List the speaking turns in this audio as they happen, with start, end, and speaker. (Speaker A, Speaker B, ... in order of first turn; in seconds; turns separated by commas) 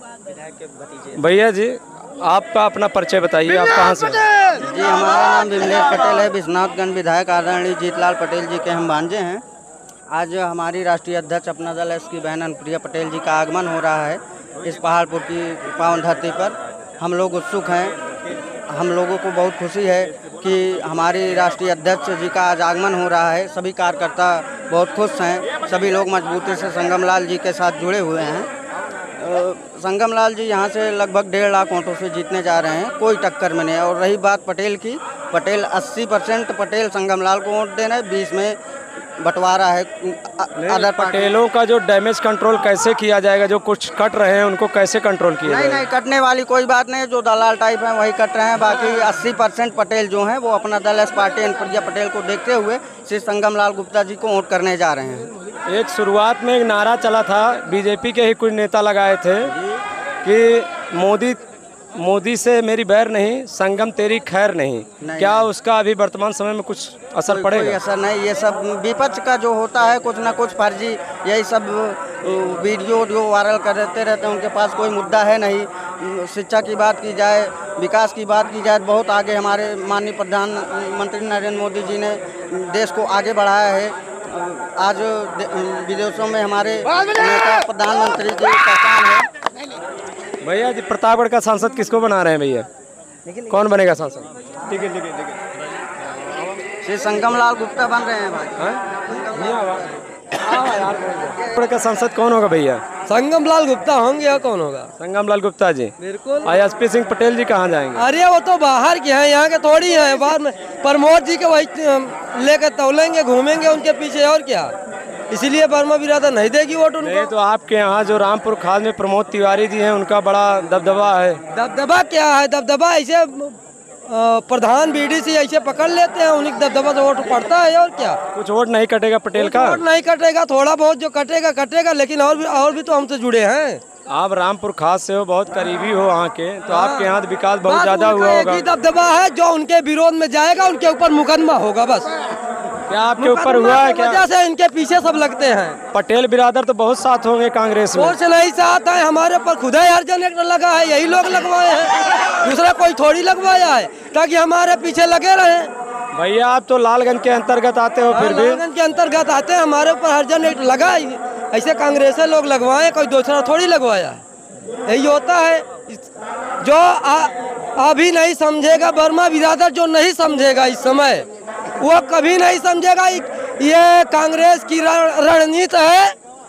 Speaker A: 1.1-4.2, Speaker B: 4.6-9.4, Speaker B: 10.1-17.9, Speaker B: 18.7-28.5, Speaker B: 29.2-38.6, Speaker B: 39.2-41.3, Speaker A: 40.6-45.8, Speaker B: 45.5-55.3, Speaker A: 55.7-59.5, Speaker B: 59.4-59.8, Speaker A: 60.2-61.4, Speaker A: 62.0-67.8, Speaker B: 65.0-65.5, Speaker B: 67.3-89.3, Speaker A: 90.4-92.7, Speaker A: 93.3-95.3, Speaker B: 96.8-100.0, Speaker A: 98.6-99.8, Speaker A: 100.4-102.8, Speaker B: 100.5-101.4, Speaker C: 103.0-104.9, Speaker A: 105.0-105.9, Speaker C: 106.0-106.6, Speaker A: 106.4-108.0, Speaker C: 107.9-114.7, Speaker C: 115.3-117.3, Speaker A: 117.0-121.4, Speaker C: 121.5-128.2, Speaker A: 128.3-129.8, Speaker C: 129.3-133.8, Speaker A: 134.1-138.7, Speaker C: 136.7-142.1, Speaker A: 142.9-144.3, Speaker C: 143.2-145.8, Speaker A: 145.9-148.2, Speaker C: 147.9-155.7, Speaker A: 156.1-158.6, Speaker C: 158.1-164.2, Speaker C: 164.9-166.0, Speaker C: 166.6-171.3, Speaker C: 171.8-176.2